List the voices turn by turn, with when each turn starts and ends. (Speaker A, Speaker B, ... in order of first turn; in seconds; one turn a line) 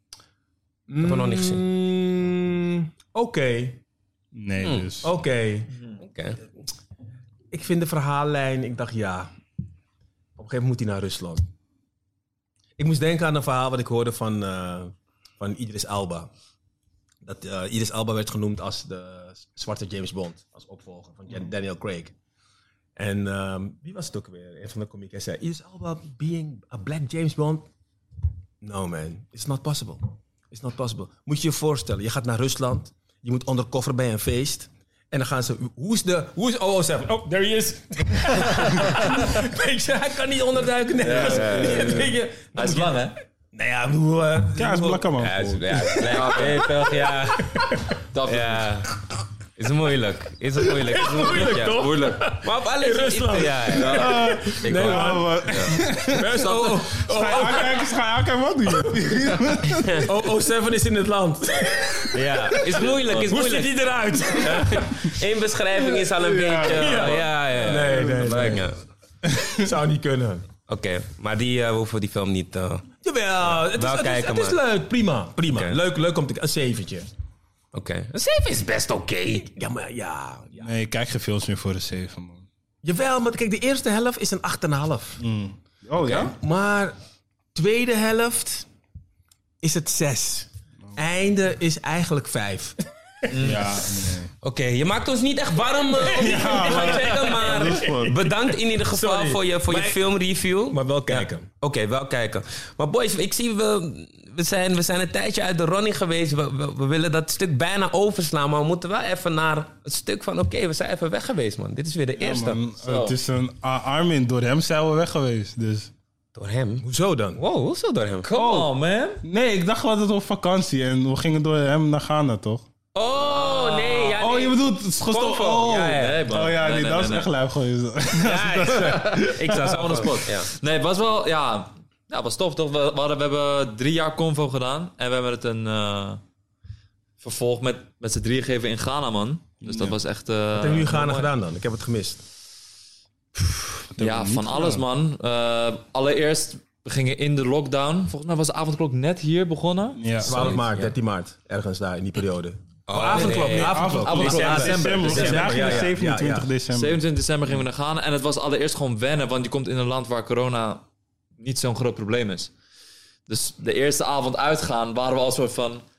Speaker A: 0.9-3.8
Speaker B: 1.0-1.6
Speaker C: 4.3-5.1
Speaker B: 4.6-4.9
Speaker A: 5.0-5.7
Speaker D: 5.7-6.0
Speaker B: 6.0-6.4
Speaker A: 7.5-9.3
Speaker A: 10.4-11.4
Speaker A: 12.8-16.3
Speaker A: 17.2-22.1
Speaker A: 23.0-27.7
Speaker A: 28.6-45.1
Speaker D: 41.0-43.1
Speaker B: 41.1-41.6
Speaker C: 41.2-42.1
Speaker C: 44.5-45.8
Speaker B: 45.2-47.6
Speaker A: 45.8-48.0
Speaker D: 46.0-46.7
Speaker D: 48.1-48.7
Speaker B: 48.2-48.9
Speaker B: 49.6-51.8
Speaker A: 50.7-57.9
Speaker D: 51.7-52.2
Speaker B: 52.4-55.8
Speaker D: 53.7-54.1
Speaker C: 53.9-60.2
Speaker D: 56.2-57.3
Speaker A: 58.7-62.2
Speaker B: 59.7-60.1
Speaker C: 61.7-62.8
Speaker B: 62.1-63.7
Speaker D: 63.0-63.3
Speaker A: 63.2-65.1
Speaker B: 64.3-68.8
Speaker C: 66.0-66.8
Speaker D: 66.6-68.6
Speaker A: 66.7-68.7
Speaker C: 67.9-68.3
Speaker A: 69.4-70.5
Speaker B: 70.7-72.8
Speaker A: 73.0-77.1
Speaker B: 73.5-74.6
Speaker B: 75.5-75.8
Speaker B: 77.7-79.5
Speaker A: 79.5-80.7
Speaker C: 80.6-82.4
Speaker A: 82.8-85.2
Speaker C: 85.2-86.3
Speaker A: 86.0-87.0
Speaker A: 87.5-88.7
Speaker A: 89.6-92.8
Speaker D: 93.3-93.7
Speaker C: 93.4-94.3
Speaker B: 94.4-112.6
Speaker C: 96.1-98.2
Speaker A: 96.2-100.0
Speaker A: 100.7-101.5
Speaker C: 112.2-115.9
Speaker D: 112.8-113.2
Speaker B: 116.3-118.7
Speaker A: 116.8-117.4
Speaker D: 118.2-119.2
Speaker C: 119.2-122.6
Speaker B: 122.9-126.3
Speaker D: 123.3-124.1
Speaker C: 124.2-129.7
Speaker D: 125.8-127.3
Speaker B: 128.2-130.5
Speaker D: 128.8-136.2
Speaker D: 137.2-141.0
Speaker C: 139.7-139.9
Speaker A: 140.5-142.2
Speaker B: 140.9-141.3
Speaker C: 143.9-144.8
Speaker D: 144.0-150.6
Speaker C: 150.0-150.6
Speaker A: 150.2-156.5
Speaker B: 150.5-150.9
Speaker B: 152.9-153.7
Speaker C: 152.9-157.0
Speaker D: 153.0-155.8
Speaker B: 155.1-155.6
Speaker D: 156.7-160.8
Speaker D: 161.4-162.5
Speaker D: 163.3-165.8